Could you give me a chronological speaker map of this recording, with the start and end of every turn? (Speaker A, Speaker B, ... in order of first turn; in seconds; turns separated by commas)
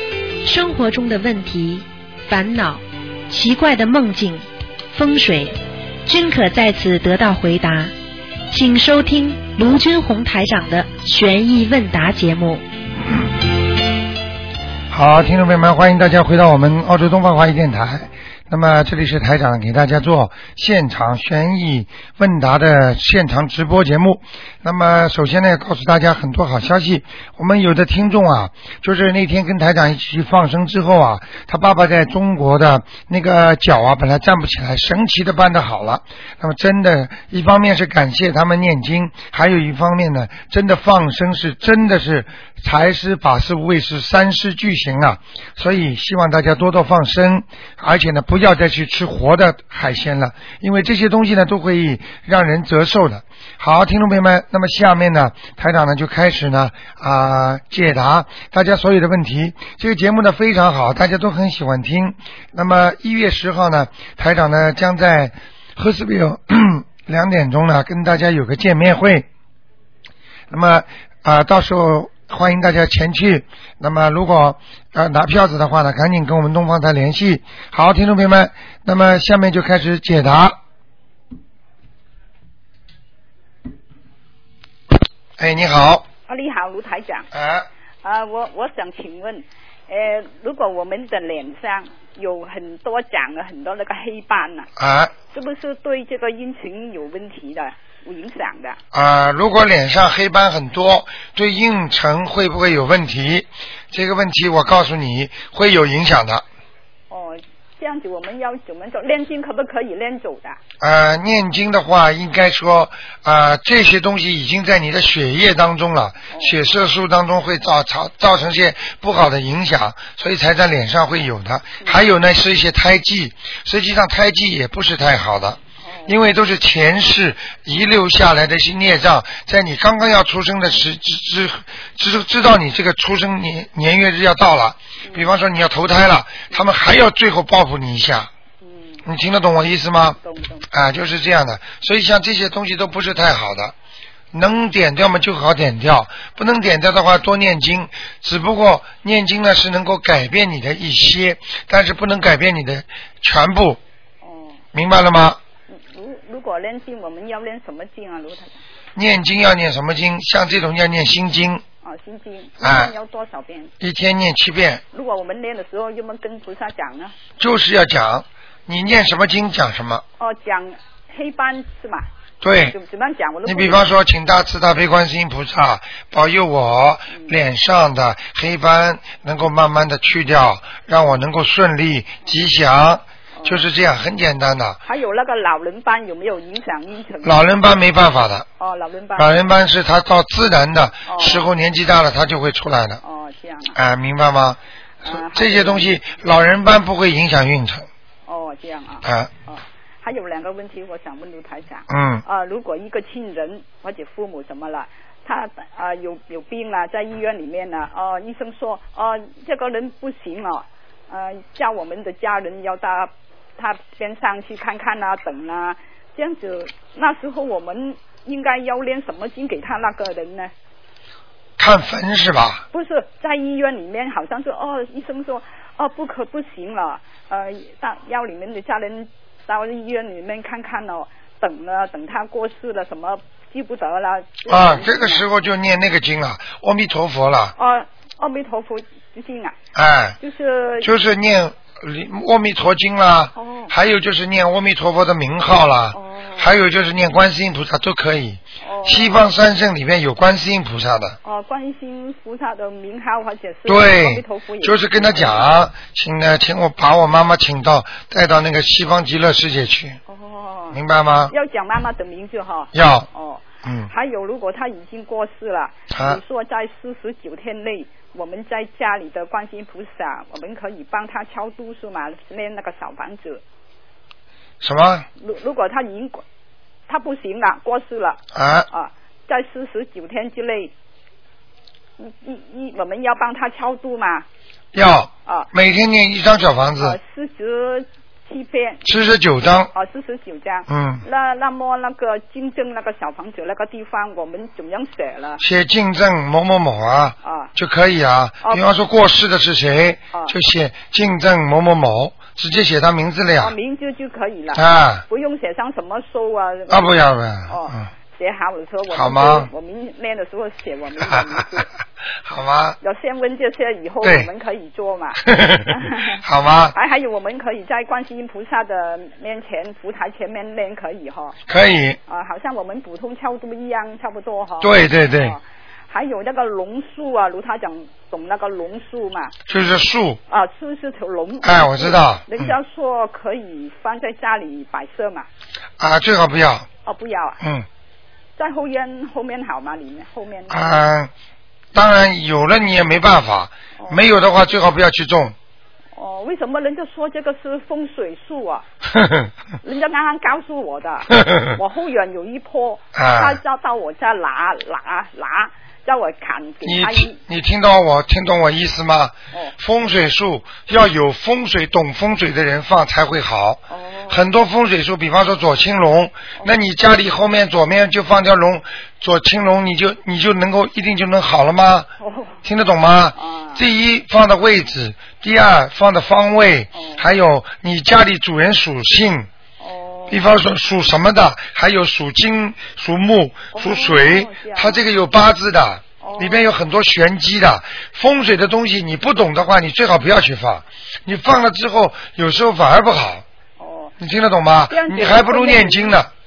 Speaker A: 0.4-7.9, Speaker A: 8.5-12.6, Speaker B: 14.9-69.3, Speaker B: 70.5-80.6, Speaker B: 85.4-86.0, Speaker C: 86.3-87.3, Speaker B: 87.3-87.7, Speaker C: 88.0-94.7, Speaker B: 94.8-95.1, Speaker C: 95.3-98.8, Speaker B: 98.9-106.5, Speaker C: 107.1-110.6, Speaker B: 110.8-138.3, Speaker C: 116.3-116.6, Speaker C: 125.8-126.2, Speaker C: 135.0-135.3, Speaker C: 138.6-139.1, Speaker B: 139.1-140.2, Speaker C: 140.2-140.7, Speaker B: 140.7-143.8, Speaker B: 144.3-153.8, Speaker C: 154.2-154.6, Speaker B: 154.7-155.4, Speaker C: 155.7-158.6, Speaker B: 158.9-161.6, Speaker C: 161.8-163.7, Speaker B: 162.6-162.9, Speaker B: 163.8-164.8, Speaker C: 164.9-167.2, Speaker B: 167.4-170.0, Speaker C: 170.2-172.1, Speaker B: 172.4-172.8, Speaker C: 172.6-173.9, Speaker B: 173.4-184.8, Speaker C: 177.1-177.4, Speaker C: 183.3-183.7, Speaker C: 184.8-187.4, Speaker B: 187.2-188.5, Speaker C: 188.6-189.5, Speaker B: 189.2-193.0, Speaker C: 191.1-191.5, Speaker C: 193.0-193.8, Speaker B: 193.8-197.9, Speaker C: 195.0-196.0, Speaker C: 198.3-220.5, Speaker B: 199.0-199.3, Speaker B: 201.9-202.2, Speaker B: 221.6-222.6, Speaker C: 222.7-235.3, Speaker B: 234.5-237.5, Speaker C: 237.6-239.6, Speaker B: 239.8-240.2, Speaker C: 240.2-240.9, Speaker B: 240.8-251.2, Speaker C: 243.4-243.7, Speaker C: 245.9-246.5, Speaker C: 248.6-249.2, Speaker C: 251.2-255.5, Speaker B: 253.7-260.0, Speaker C: 260.1-273.4, Speaker B: 260.7-261.3, Speaker B: 262.7-263.1, Speaker B: 263.6-263.9, Speaker B: 265.9-266.2, Speaker B: 274.6-275.1, Speaker C: 275.2-276.2, Speaker C: 276.9-280.7, Speaker B: 278.3-278.7, Speaker C: 282.0-284.3, Speaker B: 284.7-287.0, Speaker C: 286.8-288.8, Speaker B: 288.8-289.7, Speaker C: 289.7-295.4, Speaker B: 290.7-291.1, Speaker B: 295.4-303.6, Speaker C: 297.2-297.5, Speaker C: 303.4-311.7, Speaker B: 304.5-305.0, Speaker B: 306.7-307.9, Speaker B: 308.9-309.5, Speaker B: 311.0-311.4, Speaker B: 312.2-312.8, Speaker C: 312.8-316.2, Speaker B: 314.0-314.3, Speaker B: 315.3-316.8, Speaker C: 316.7-321.4, Speaker B: 321.5-322.0, Speaker C: 322.1-329.3, Speaker B: 324.6-325.4, Speaker B: 329.5-330.2, Speaker C: 330.3-335.3, Speaker B: 331.4-332.5, Speaker B: 335.8-336.7, Speaker C: 336.9-337.4, Speaker B: 337.4-337.7, Speaker C: 338.4-340.8, Speaker B: 340.5-341.1, Speaker B: 341.7-345.4, Speaker C: 345.9-348.7, Speaker B: 348.9-349.3, Speaker C: 349.6-357.2, Speaker B: 351.1-351.6, Speaker B: 352.9-353.4, Speaker B: 356.6-371.9, Speaker C: 363.7-364.2, Speaker C: 372.0-372.4, Speaker B: 372.4-379.3, Speaker C: 373.2-373.6, Speaker C: 376.7-377.1, Speaker C: 379.6-380.3, Speaker B: 380.1-393.2, Speaker C: 383.5-384.9, Speaker C: 386.0-386.5, Speaker C: 393.6-394.0, Speaker B: 394.0-396.1, Speaker C: 394.7-396.0